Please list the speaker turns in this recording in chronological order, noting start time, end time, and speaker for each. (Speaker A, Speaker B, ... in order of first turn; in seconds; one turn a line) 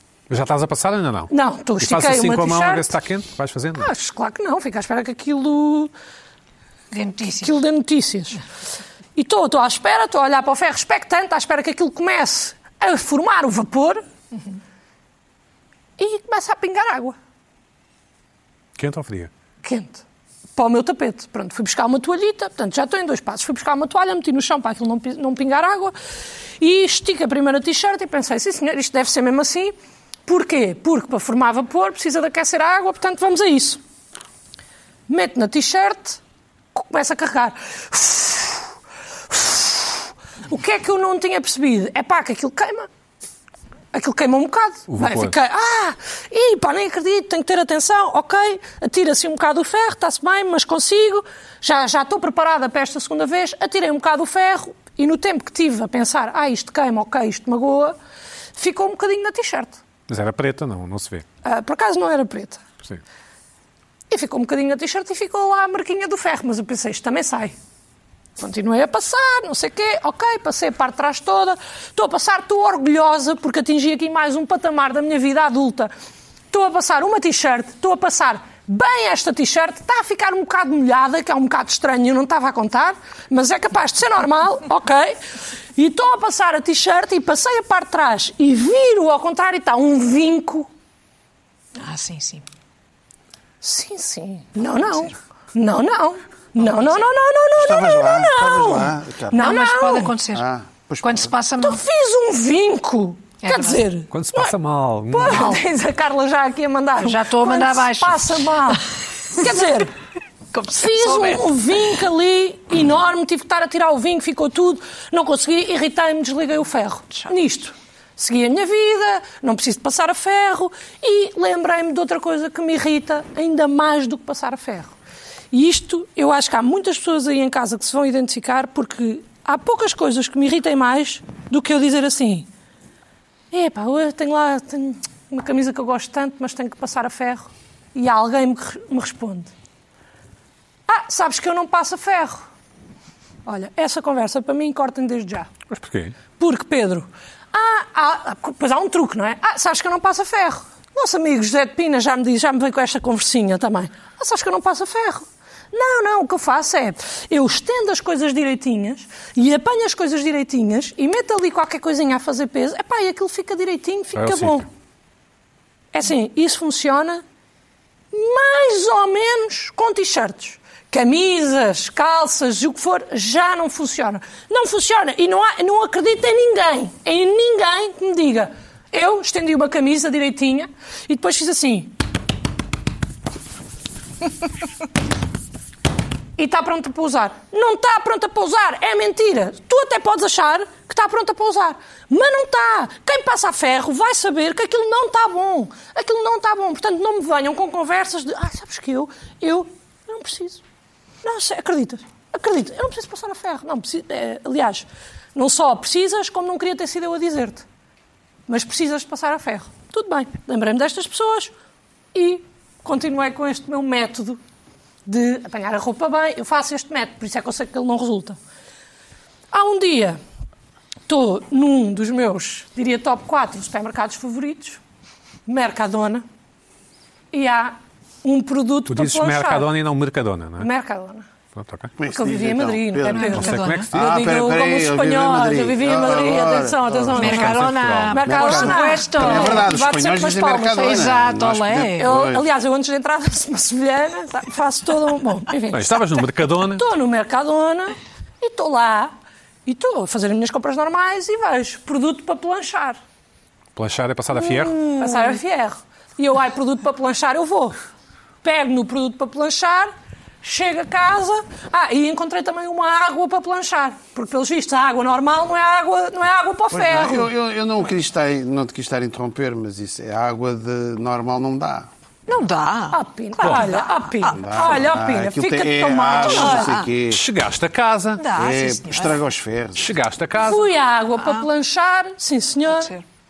Speaker A: 0.3-3.9
Speaker B: 1.3-2.9
Speaker B: 3.8-5.9
Speaker C: 6.9-7.6
Speaker B: 7.3-8.4
Speaker B: 9.2-14.0
Speaker B: 16.0-17.2
Speaker A: 18.8-19.3
Speaker B: 19.6-20.0
Speaker B: 20.6-25.9
Speaker B: 26.6-29.7
Speaker B: 30.3-33.8
Speaker B: 35.1-36.2
Speaker B: 36.8-38.7
Speaker B: 39.3-42.9
Speaker B: 43.9-58.0
Speaker A: 44.9-45.4
Speaker B: 58.6-59.8
Speaker A: 60.1-61.2
Speaker B: 61.4-62.6
Speaker B: 64.1-67.5
Speaker B: 68.4-75.9
Speaker B: 76.5-85.2
Speaker B: 85.8-90.7
Speaker C: 91.8-92.5
Speaker B: 93.6-100.2
Speaker C: 96.6-97.0
Speaker D: 97.5-99.5
Speaker C: 99.3-100.5
Speaker D: 100.3-101.3
Speaker C: 101.0-101.8
Speaker B: 101.6-104.5
Speaker C: 103.4-103.8
Speaker A: 104.1-105.5
Speaker B: 105.1-109.9
Speaker C: 107.0-108.8
Speaker C: 110.5-112.0
Speaker B: 110.8-124.9
Speaker B: 125.5-132.5
Speaker B: 133.5-139.5
Speaker B: 140.9-142.4
Speaker B: 143.5-145.5
Speaker A: 145.7-146.2
Speaker B: 146.4-164.7
Speaker A: 164.2-164.7
Speaker B: 165.9-167.2
Speaker B: 168.1-181.9
Speaker B: 186.4-200.6
Speaker B: 201.2-207.7
Speaker B: 208.5-211.5
Speaker B: 212.1-214.4
Speaker B: 215.1-218.4
Speaker B: 219.5-220.2
Speaker B: 221.1-224.8
Speaker B: 225.5-226.2
Speaker B: 227.3-229.7
Speaker A: 228.9-230.7
Speaker B: 230.6-231.3
Speaker A: 231.6-231.9
Speaker D: 232.0-237.4
Speaker B: 232.1-241.2
Speaker C: 233.1-233.9
Speaker A: 233.3-234.2
Speaker C: 237.1-239.7
Speaker A: 237.2-238.2
Speaker D: 238.2-242.5
Speaker C: 240.8-242.1
Speaker B: 242.0-249.1
Speaker A: 245.7-246.9
Speaker B: 249.7-253.0
Speaker A: 253.8-254.8
Speaker B: 254.4-257.8
Speaker B: 258.4-267.3
Speaker D: 266.7-271.9
Speaker C: 272.3-274.4
Speaker B: 272.9-276.8
Speaker D: 274.4-277.2
Speaker C: 276.2-276.9
Speaker A: 277.1-278.2
Speaker C: 278.2-279.2
Speaker D: 278.3-280.0
Speaker A: 279.8-280.7
Speaker B: 280.4-282.9
Speaker C: 281.2-281.5
Speaker C: 282.7-283.0